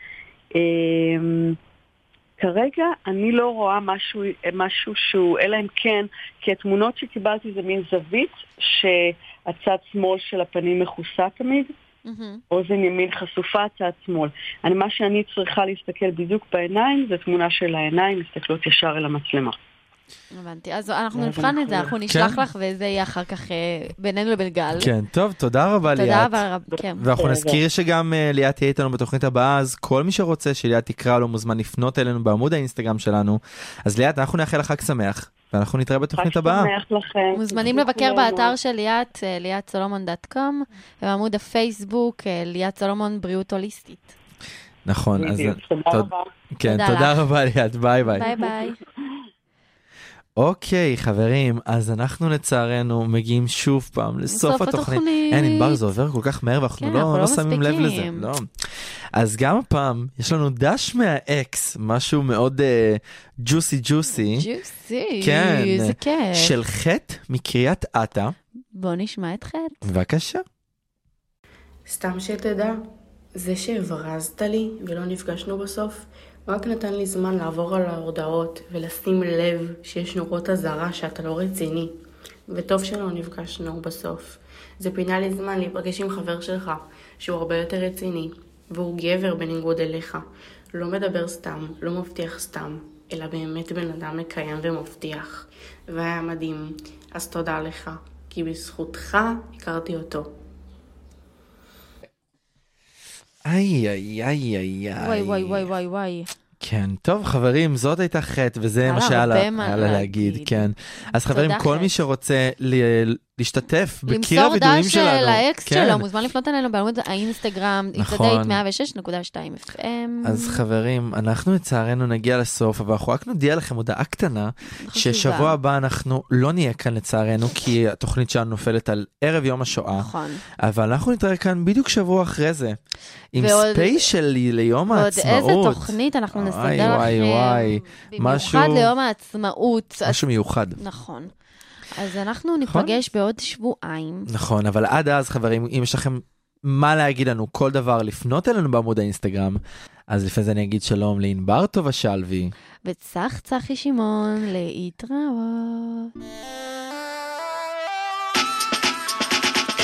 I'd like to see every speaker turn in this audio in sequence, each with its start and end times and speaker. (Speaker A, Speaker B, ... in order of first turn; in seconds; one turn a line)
Speaker A: 0.5-1.6
Speaker A: 2.4-11.7
Speaker B: 12.1-12.4
Speaker A: 12.5-19.6
Speaker B: 20.3-24.9
Speaker A: 21.1-21.9
Speaker C: 22.1-22.4
Speaker C: 24.8-26.4
Speaker B: 25.9-27.0
Speaker C: 27.0-36.7
Speaker A: 27.2-27.6
Speaker A: 36.2-38.5
Speaker B: 37.3-44.1
Speaker C: 44.9-48.3
Speaker A: 45.2-46.3
Speaker B: 46.6-47.2
Speaker B: 48.0-48.8
Speaker A: 48.2-48.7
Speaker C: 50.4-58.5
Speaker B: 54.3-55.8
Speaker B: 56.8-58.3
Speaker C: 59.1-64.5
Speaker B: 64.2-66.5
Speaker C: 65.2-68.3
Speaker B: 68.7-69.8
Speaker C: 69.8-70.4
Speaker D: 71.8-72.8
Speaker D: 73.3-81.9
Speaker D: 82.5-100.4
Speaker C: 103.4-105.7
Speaker B: 105.0-106.3
Speaker C: 106.6-116.0
Speaker B: 108.8-110.7
Speaker B: 111.2-112.0
Speaker B: 114.1-120.6
Speaker C: 118.0-118.6
Speaker C: 120.2-132.8
Speaker B: 124.8-125.5
Speaker B: 129.9-130.4
Speaker C: 133.3-138.9
Speaker B: 133.4-134.1
Speaker B: 134.9-140.2
Speaker C: 140.1-140.8
Speaker B: 140.8-141.3
Speaker B: 141.9-144.3
Speaker C: 142.7-142.9
Speaker C: 144.3-152.5
Speaker B: 152.8-156.1